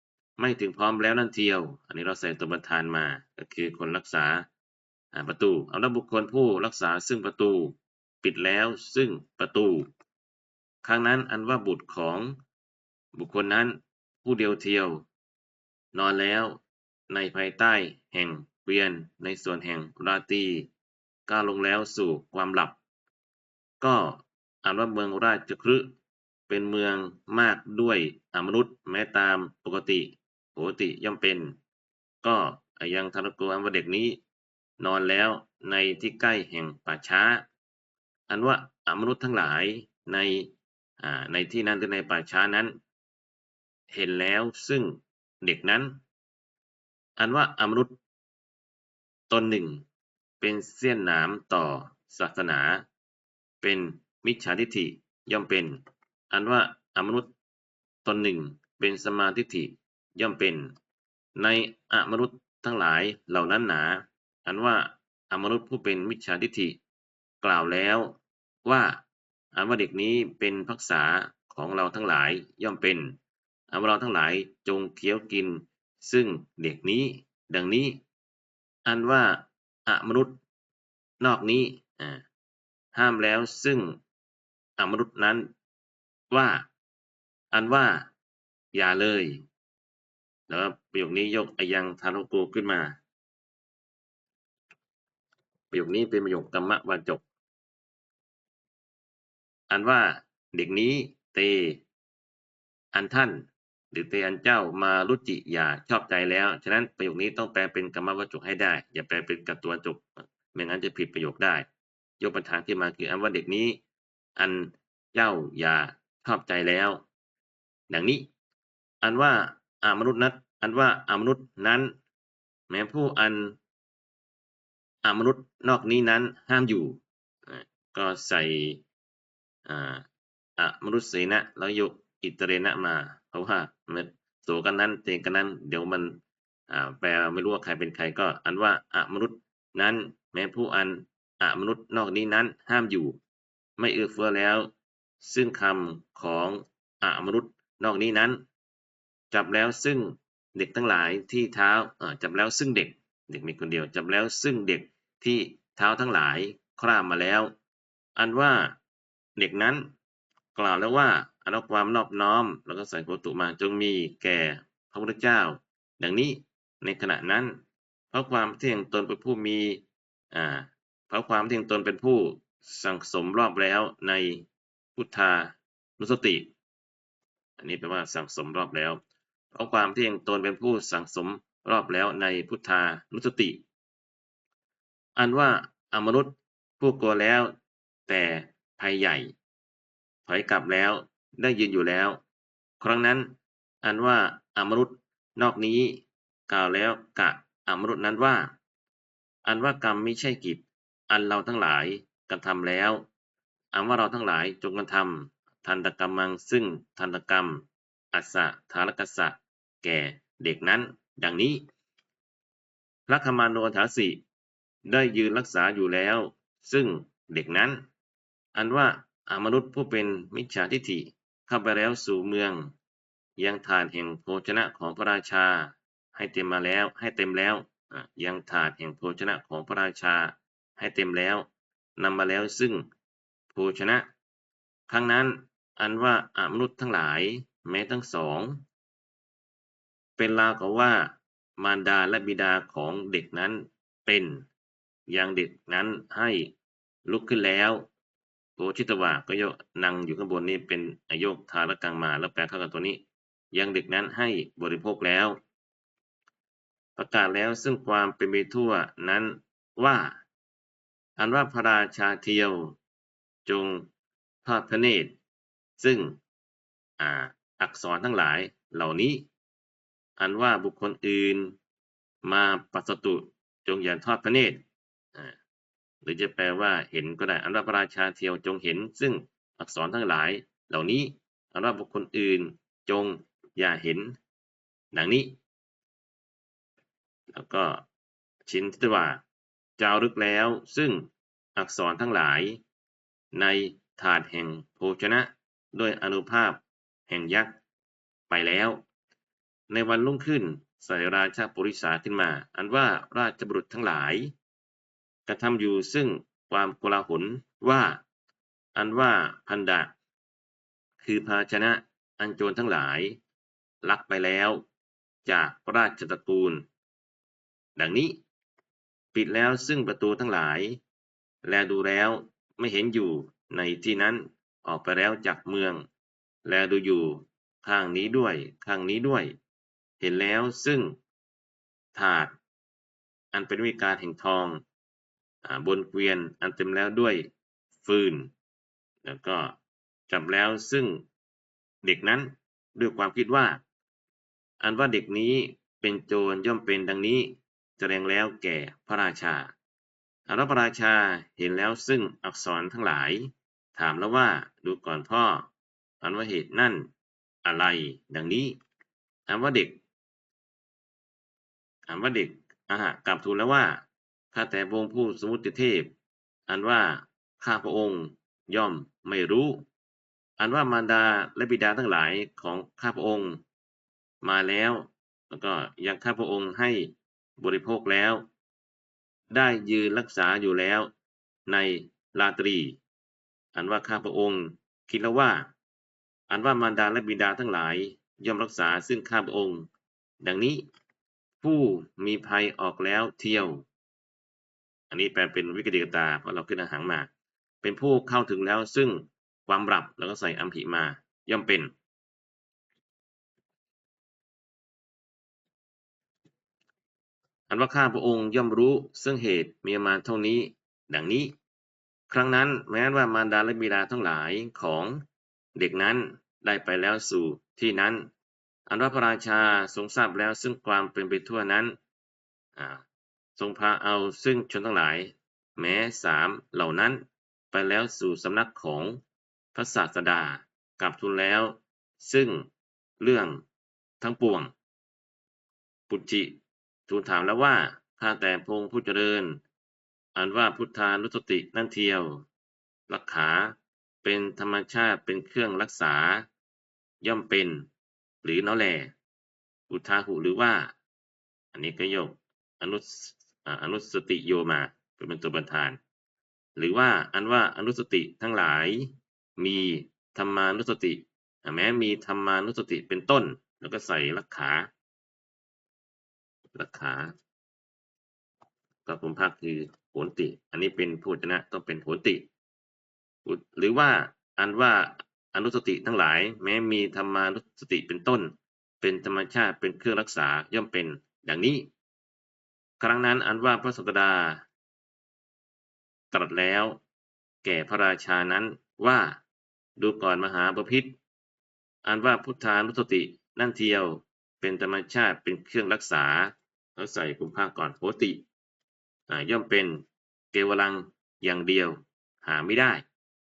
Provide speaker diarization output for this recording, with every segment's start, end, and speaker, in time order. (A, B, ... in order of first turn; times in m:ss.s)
0:00.4-0:04.5 A
0:05.1-0:09.9 A
0:10.8-0:12.3 A
0:13.1-0:15.1 A
0:15.9-0:20.7 A
0:21.3-0:22.8 A
0:23.8-0:25.9 A
0:26.5-0:31.5 A
0:32.2-0:34.2 A
0:34.8-0:37.4 A
0:38.3-0:42.8 A
0:43.9-0:46.0 A
0:47.2-0:48.0 A
0:49.3-0:49.8 A
0:50.4-0:52.8 A
0:53.6-0:55.8 A
0:56.3-0:57.3 A
0:58.0-1:00.7 A
1:01.4-1:06.8 A
1:07.4-1:09.0 A
1:09.5-1:13.2 A
1:13.7-1:18.0 A
1:18.8-1:20.4 A
1:21.2-1:22.2 A
1:22.9-1:24.0 A
1:24.8-1:25.5 A
1:26.3-1:26.7 A
1:27.5-1:28.1 A
1:28.7-1:29.4 A
1:30.5-1:33.0 A
1:35.7-1:37.2 A
1:39.7-1:41.8 A
1:42.9-1:51.7 A
1:52.2-1:53.8 A
1:54.4-1:57.0 A
1:57.9-1:58.3 A
1:59.0-2:01.9 A
2:02.7-2:03.6 A
2:05.0-2:08.8 A
2:09.7-2:10.1 A
2:10.6-2:23.2 A
2:23.8-2:28.4 A
2:29.3-2:37.5 A
2:38.2-2:38.8 A
2:39.4-2:39.9 A
2:40.6-2:47.6 A
2:48.1-2:56.5 A
2:57.6-2:59.0 A
2:59.5-3:03.6 A
3:05.2-3:07.5 A
3:08.1-3:09.3 A
3:10.3-3:12.2 A
3:12.8-3:18.5 A
3:19.4-3:23.0 A
3:23.7-3:31.6 A
3:33.1-3:34.2 A
3:34.9-3:37.8 A
3:38.6-3:42.7 A
3:43.4-3:52.8 A
3:53.5-3:54.1 A
3:54.9-3:58.6 A
4:00.2-4:04.4 A
4:05.1-4:06.5 A
4:07.1-4:07.9 A
4:08.6-4:15.4 A
4:17.0-4:20.2 A
4:21.2-4:22.8 A
4:23.5-4:23.9 A
4:24.4-4:25.2 A
4:25.8-4:26.2 A
4:27.0-4:29.3 A
4:30.2-4:31.5 A
4:32.2-4:34.6 A
4:36.0-4:44.2 A
4:44.9-4:45.4 A
4:47.3-4:47.8 A
4:48.5-4:49.2 A
4:49.8-4:52.6 A
4:53.3-4:57.6 A
4:58.3-4:58.8 A
4:59.7-5:04.3 A
5:05.3-5:08.0 A
5:08.8-5:09.9 A
5:11.0-5:13.2 A
5:13.8-5:14.6 A
5:15.2-5:16.6 A
5:17.8-5:18.2 A
5:19.1-5:20.8 A
5:21.4-5:25.9 A
5:26.4-5:29.4 A
5:30.0-5:31.0 A
5:31.9-5:32.4 A
5:33.3-5:34.6 A
5:35.4-5:38.3 A
5:39.0-5:39.6 A
5:40.1-5:41.0 A
5:41.8-5:43.6 A
5:44.6-5:49.5 A
5:50.3-5:55.5 A
5:56.0-5:56.9 A
5:57.4-5:58.6 A
5:59.3-5:59.8 A
6:01.9-6:05.9 A
6:06.5-6:09.6 A
6:10.4-6:13.4 A
6:14.2-6:18.2 A
6:19.3-6:20.9 A
6:21.5-6:22.8 A
6:23.6-6:25.5 A
6:26.3-6:29.7 A
6:30.2-6:30.6 A
6:31.4-6:33.7 A
6:34.9-6:37.1 A
6:37.6-6:41.7 A
6:47.5-6:51.3 A
6:52.1-6:55.0 A
6:55.6-6:58.1 A
6:58.7-7:01.8 A
7:02.6-7:02.8 A
7:03.4-7:09.0 A
7:09.5-7:12.5 A
7:13.0-7:13.4 A
7:14.0-7:14.5 A
7:15.9-7:19.4 A
7:20.2-7:22.2 A
7:22.9-7:26.3 A
7:27.0-7:27.7 A
7:28.2-7:28.9 A
7:29.7-7:30.8 A
7:31.5-7:35.8 A
7:36.6-7:44.7 A
7:46.5-7:47.1 A
7:48.8-7:52.3 A
7:53.2-8:01.7 A
8:02.8-8:04.4 A
8:06.1-8:06.8 A
8:07.4-8:09.2 A
8:09.8-8:11.0 A
8:11.8-8:18.2 A
8:19.1-8:22.8 A